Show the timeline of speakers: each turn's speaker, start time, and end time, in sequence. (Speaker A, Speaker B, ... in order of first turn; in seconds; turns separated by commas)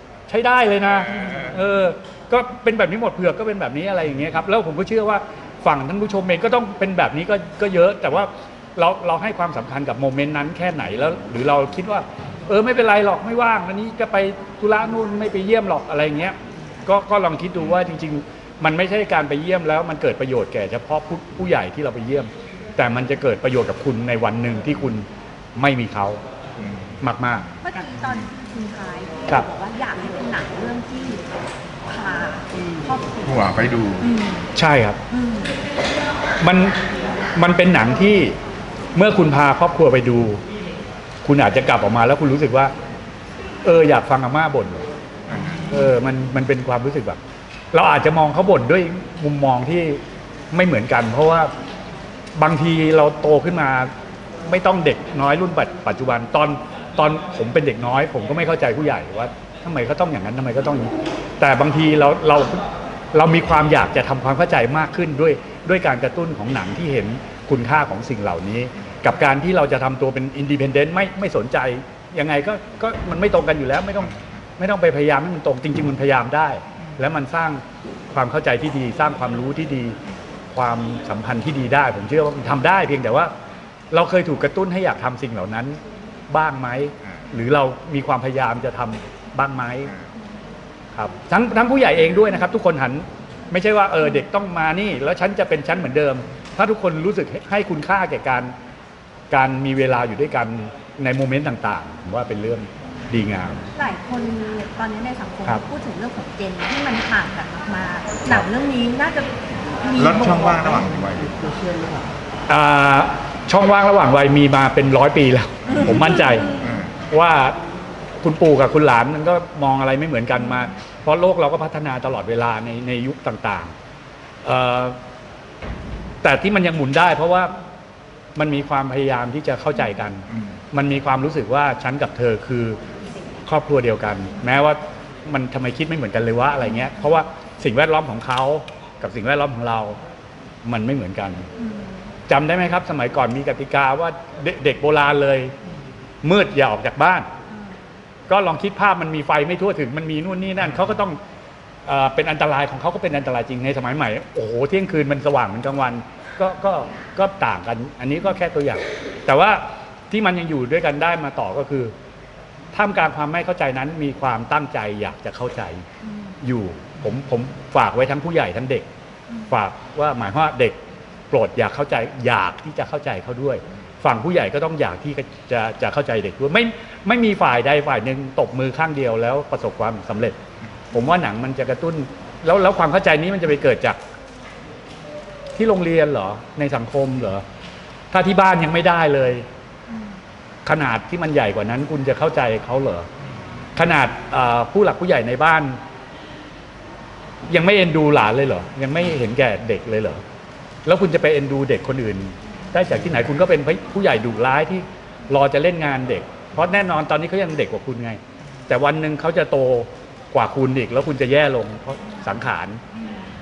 Speaker A: 0.3-16.4, Speaker B: 1.2-1.5, Speaker A: 16.9-25.1, Speaker A: 25.6-26.2, Speaker B: 26.6-27.0, Speaker A: 27.0-27.5, Speaker C: 27.6-31.3, Speaker C: 31.9-33.3, Speaker B: 33.2-34.1, Speaker C: 34.0-34.5, Speaker A: 34.5-35.0, Speaker C: 35.1-35.5, Speaker A: 36.4-36.8, Speaker A: 37.4-38.4, Speaker A: 39.0-40.4, Speaker A: 41.2-42.7, Speaker A: 43.6-44.9, Speaker B: 45.3-45.7, Speaker A: 45.7-47.2, Speaker A: 47.7-50.0, Speaker A: 50.5-51.5, Speaker A: 52.4-53.9, Speaker A: 54.5-77.6, Speaker A: 78.1-80.0, Speaker A: 80.5-83.3, Speaker A: 83.9-89.9, Speaker A: 90.9-98.5, Speaker A: 99.3-103.7, Speaker C: 103.8-110.6, Speaker B: 110.0-111.4, Speaker A: 112.5-116.6, Speaker B: 116.5-116.9, Speaker A: 117.1-117.6, Speaker A: 118.2-123.7, Speaker A: 124.4-125.0, Speaker A: 126.2-127.5, Speaker A: 128.4-132.8, Speaker A: 133.5-140.0, Speaker A: 140.7-141.5, Speaker C: 141.6-142.1, Speaker A: 142.3-145.5, Speaker A: 146.2-147.3, Speaker C: 147.5-147.8, Speaker A: 148.3-151.2, Speaker A: 151.9-161.9, Speaker A: 162.7-165.8, Speaker C: 166.0-166.4, Speaker A: 166.4-168.9, Speaker C: 169.3-169.6, Speaker A: 169.5-170.8, Speaker A: 171.3-180.4, Speaker A: 180.9-184.0, Speaker A: 185.6-187.4, Speaker A: 188.1-189.4, Speaker A: 190.7-193.1, Speaker A: 193.8-195.8, Speaker A: 197.5-200.2, Speaker A: 200.9-212.8